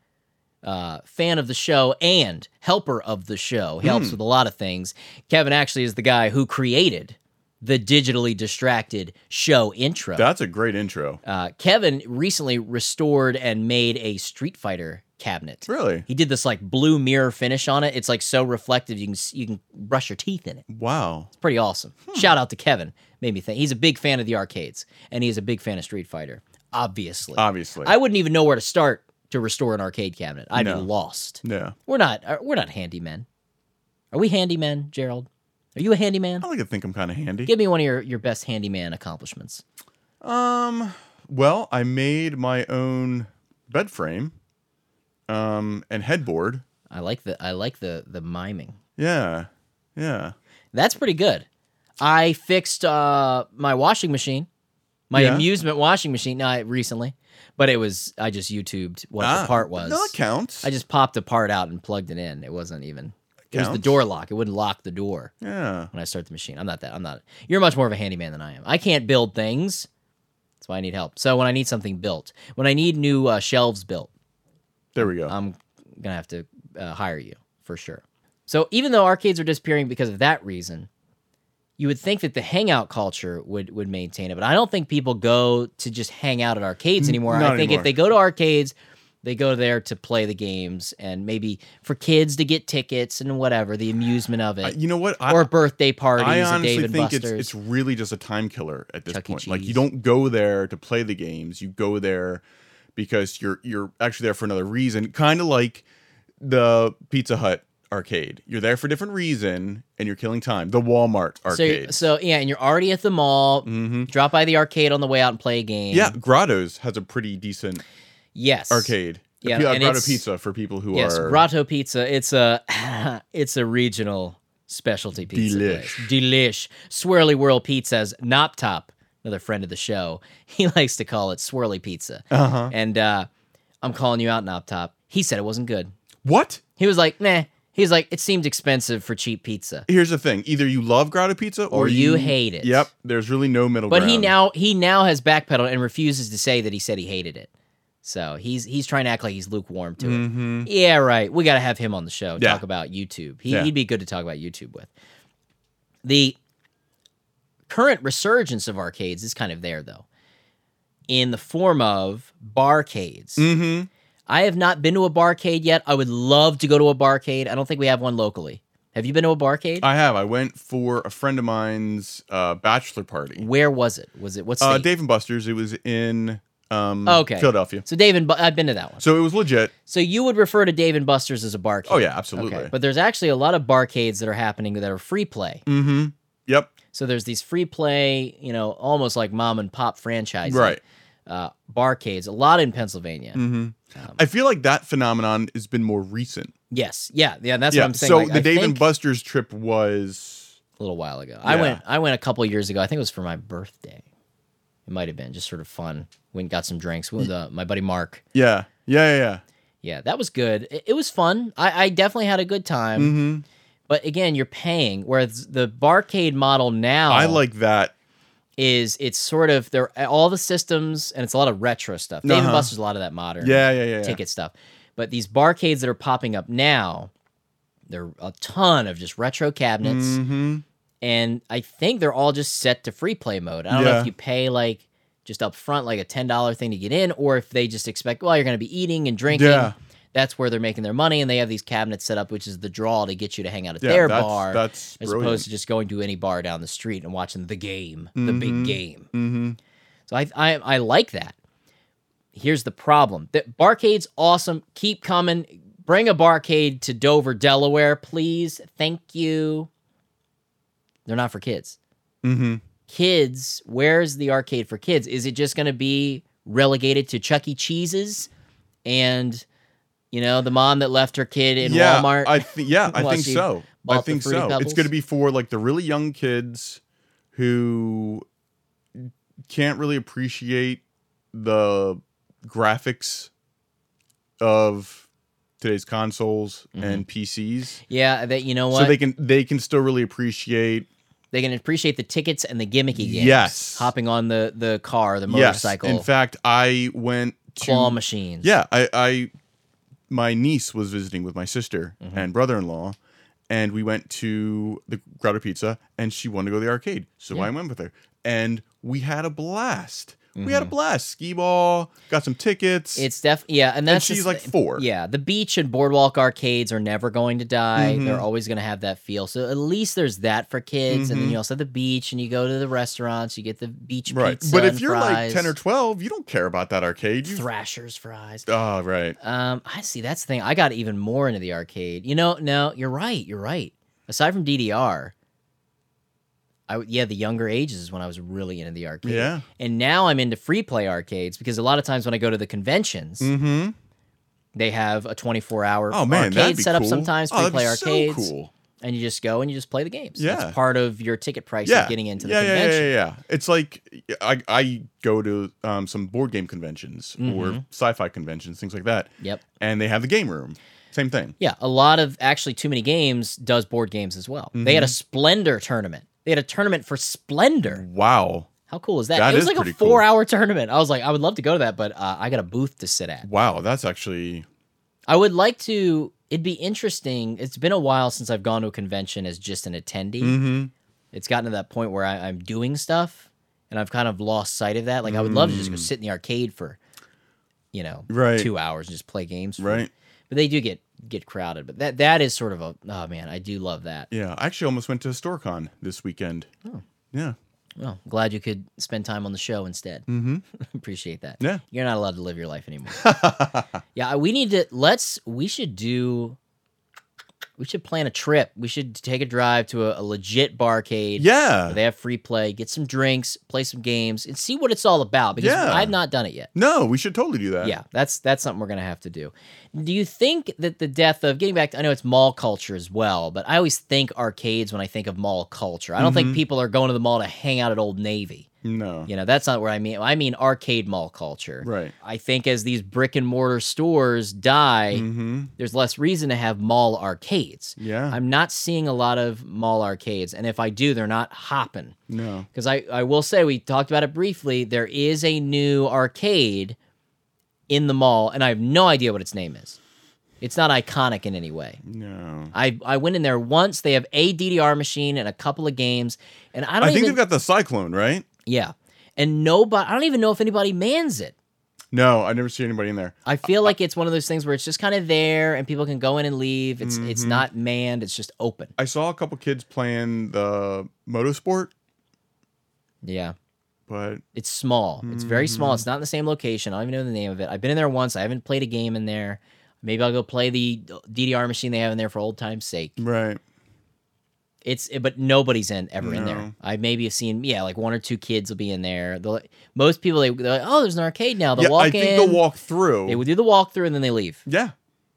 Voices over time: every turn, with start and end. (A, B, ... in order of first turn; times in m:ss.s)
0:00.6-0:10.3 A
0:03.8-0:04.2 B
0:10.2-0:11.2 B
0:11.2-0:20.6 A
0:15.7-0:16.0 B
0:20.7-0:21.3 B
0:21.4-0:33.2 A
0:27.4-0:27.9 B
0:30.5-0:30.9 B
0:31.4-0:31.7 B
0:34.1-0:36.4 A
0:36.4-0:37.5 B
0:37.4-0:39.6 A
0:40.2-0:44.3 B
0:45.3-0:46.6 B
0:46.9-0:48.8 A
0:49.0-0:50.3 B
0:50.7-0:51.4 A
0:52.0-0:54.5 A
0:55.1-1:05.3 A
0:55.1-0:55.5 B
0:59.2-1:00.7 B
1:03.5-1:04.0 B
1:05.4-1:05.9 B
1:05.9-1:09.9 A
1:10.6-1:14.1 A
1:14.9-1:15.3 B
1:15.0-1:20.9 A
1:21.8-1:34.8 A
1:27.0-1:27.9 B
1:34.6-1:35.5 B
1:35.3-1:37.5 A
1:36.2-1:42.4 B
1:39.1-1:39.8 A
1:43.0-1:45.8 B
1:46.4-1:52.0 B
1:51.5-1:56.2 A
1:53.6-1:54.1 B
1:55.9-1:57.8 B
1:58.3-2:00.2 A
1:58.7-2:01.4 B
2:00.9-2:13.3 A
2:05.3-2:06.1 B
2:12.3-2:12.7 B
2:13.8-2:15.9 A
2:16.2-2:16.6 B
2:16.8-2:19.8 A
2:19.9-2:24.3 B
2:21.7-2:22.9 A
2:23.9-2:27.5 A
2:28.0-2:34.9 A
2:30.0-2:30.7 B
2:32.4-2:32.6 B
2:36.0-2:36.4 A
2:37.7-2:40.0 A
2:41.1-2:43.5 A
2:43.4-2:43.9 B
2:44.3-2:49.9 A
2:49.8-2:53.4 B
2:53.4-2:54.9 A
2:54.6-2:57.8 B
2:57.0-2:59.0 A
2:59.0-2:59.7 B
2:59.8-3:05.6 A
3:01.9-3:02.7 B
3:05.7-3:06.7 B
3:06.9-3:13.4 A
3:10.4-3:10.8 B
3:13.3-3:16.5 B
3:16.7-3:18.8 A
3:17.7-3:20.6 B
3:20.8-3:24.0 A
3:21.4-3:21.8 B
3:24.9-3:28.2 A
3:28.3-3:29.4 B
3:29.8-3:33.2 A
3:33.0-3:33.4 B
3:33.9-3:37.4 A
3:37.1-3:37.9 B
3:38.6-3:47.1 A
3:42.2-3:42.7 B
3:43.4-3:44.2 B
3:47.9-3:50.2 A
3:49.8-3:50.6 B
3:51.0-4:09.1 A
3:53.7-3:54.1 B
3:59.3-3:59.7 B
4:03.8-4:05.4 B
4:08.2-4:09.6 B
4:10.1-4:11.3 A
4:12.3-4:19.7 A
4:21.0-4:21.8 A
4:22.2-4:22.6 B
4:22.9-4:28.3 A
4:28.8-4:29.4 A
4:30.1-4:34.9 A
4:31.6-4:36.8 B
4:37.3-4:38.2 B
4:38.9-4:40.8 B
4:41.3-4:43.3 B
4:44.4-4:45.0 B
4:45.6-4:47.8 B
4:46.7-4:47.0 A
4:47.9-4:49.0 A
4:48.7-4:50.9 B
4:51.3-4:56.1 A
4:52.9-4:53.9 B
4:55.3-4:59.3 B
4:57.6-4:58.5 A
5:00.1-5:03.0 B
5:02.0-5:02.3 A
5:03.5-5:13.1 B
5:10.3-5:10.7 A
5:13.0-5:25.5 A
5:13.9-5:14.8 B
5:17.8-5:18.2 B
5:20.9-5:21.4 B
5:24.1-5:27.4 B
5:27.2-5:28.5 A
5:28.5-5:29.2 B
5:29.2-5:35.1 A
5:36.7-5:43.3 A
5:39.0-5:39.4 B
5:43.2-5:43.7 B
5:44.5-5:52.9 A
5:45.9-5:48.5 B
5:50.2-5:50.6 B
5:51.6-6:01.4 B
5:57.2-5:57.6 A
6:01.4-6:07.8 A
6:04.5-6:05.0 B
6:07.7-6:08.5 B
6:08.7-6:13.3 A
6:09.1-6:10.0 B
6:13.2-6:14.4 B
6:15.1-6:20.4 A
6:20.2-6:20.7 B
6:21.1-6:26.8 A
6:25.0-6:25.9 B
6:27.7-6:34.1 A
6:28.1-6:28.5 B
6:29.6-6:29.9 B
6:34.1-6:36.5 B
6:37.8-6:43.1 A
6:40.1-6:40.4 B
6:42.9-6:43.7 B
6:43.9-6:46.4 A
6:47.6-6:56.5 A
6:51.2-6:51.8 B
6:55.4-6:55.9 B
6:56.5-6:57.8 B
6:57.6-7:08.5 A
7:06.0-7:06.4 B
7:08.6-7:09.1 B
7:09.1-7:15.0 A
7:11.6-7:11.9 B
7:14.9-7:15.5 B
7:15.6-7:22.0 A
7:17.8-7:18.2 B
7:22.1-7:22.5 B
7:22.5-7:26.8 A
7:27.7-7:29.8 A
7:30.4-7:31.8 A
7:31.8-7:32.5 B
7:32.5-7:37.2 A
7:36.8-7:38.2 B
7:38.4-7:41.3 A
7:41.9-7:43.7 B
7:43.2-7:48.7 A
7:46.8-7:47.4 B
7:48.8-7:51.7 B
7:53.0-7:53.3 A
7:53.9-7:54.2 B
7:54.3-8:03.0 A
7:55.0-7:55.8 B
8:03.0-8:03.4 B
8:04.6-8:12.4 A
8:06.0-8:06.5 B
8:11.5-8:13.2 B
8:13.1-8:14.4 A
8:14.4-8:14.7 B